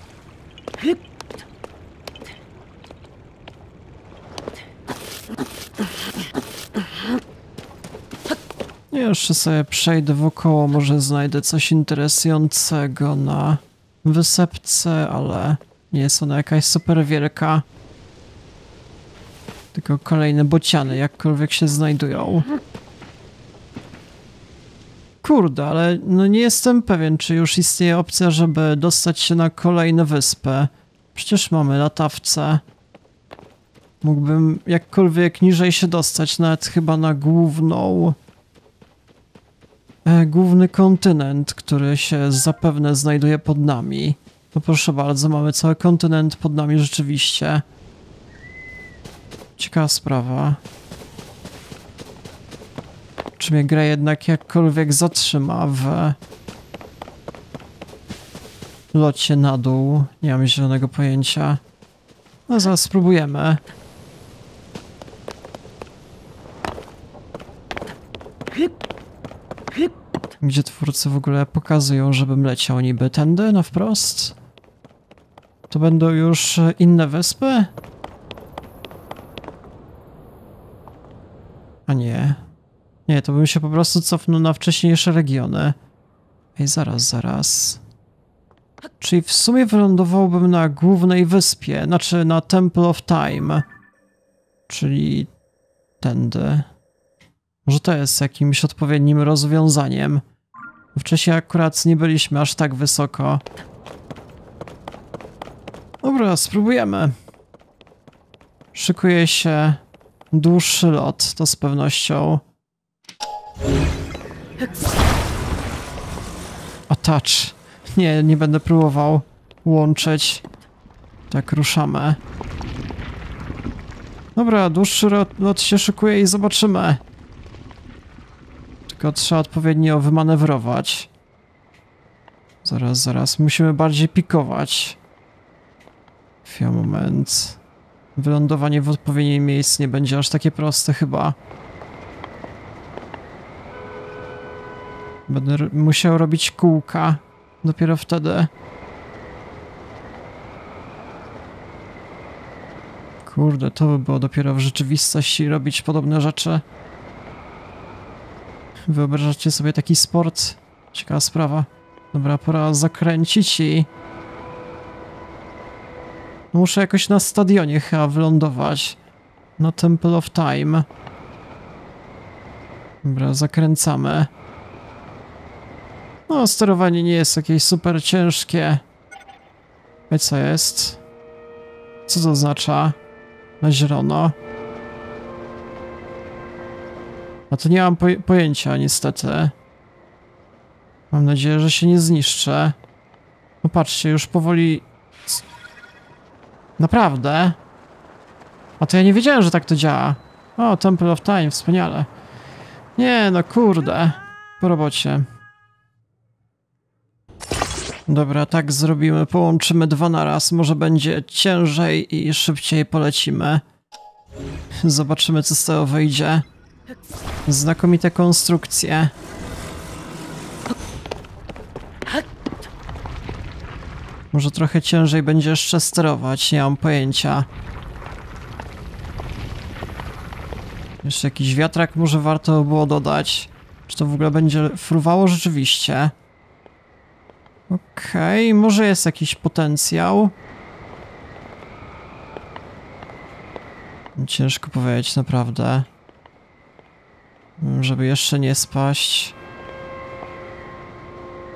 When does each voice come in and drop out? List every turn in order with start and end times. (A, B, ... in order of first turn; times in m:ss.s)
0:08.9-0:17.6 A
0:19.7-0:22.5 A
0:25.2-0:32.6 A
0:34.0-0:38.2 A
0:40.0-0:47.6 A
0:49.6-0:50.6 A
0:53.4-0:56.2 A
0:58.9-1:01.6 A
1:02.5-1:03.6 A
1:10.4-1:14.4 A
1:15.7-1:17.7 A
1:21.9-1:22.4 A
1:23.1-1:25.8 A
1:26.6-1:27.8 A
1:29.0-1:33.6 A
1:34.7-1:35.3 A
1:36.0-1:36.7 A
1:37.6-1:40.2 A
1:41.0-1:43.4 A
1:46.0-1:47.1 A
1:48.7-1:49.8 A
1:50.3-1:52.4 A
1:56.9-2:00.4 A
2:01.3-2:02.2 A
2:04.4-2:07.0 A
2:08.9-2:11.1 A
2:12.6-2:15.0 A
2:16.4-2:17.6 A
2:18.2-2:21.4 A
2:25.3-2:28.5 A
2:33.2-2:36.6 A
2:38.9-2:43.9 A
2:46.5-2:49.0 A
2:49.6-2:50.9 A
2:53.0-2:54.3 A
2:56.3-2:58.8 A
3:00.1-3:01.0 A
3:02.1-3:03.0 A
3:03.6-3:04.4 A
3:07.5-3:09.5 A
3:11.1-3:12.8 A
3:13.6-3:15.4 A
3:16.8-3:17.6 A
3:18.8-3:22.1 A
3:23.0-3:25.3 A
3:28.1-3:33.6 A
3:34.8-3:36.5 A
3:37.5-3:39.1 A
3:44.3-3:47.5 A
3:51.0-3:56.1 A
3:57.7-4:00.3 A
4:04.2-4:05.9 A
4:07.6-4:09.4 A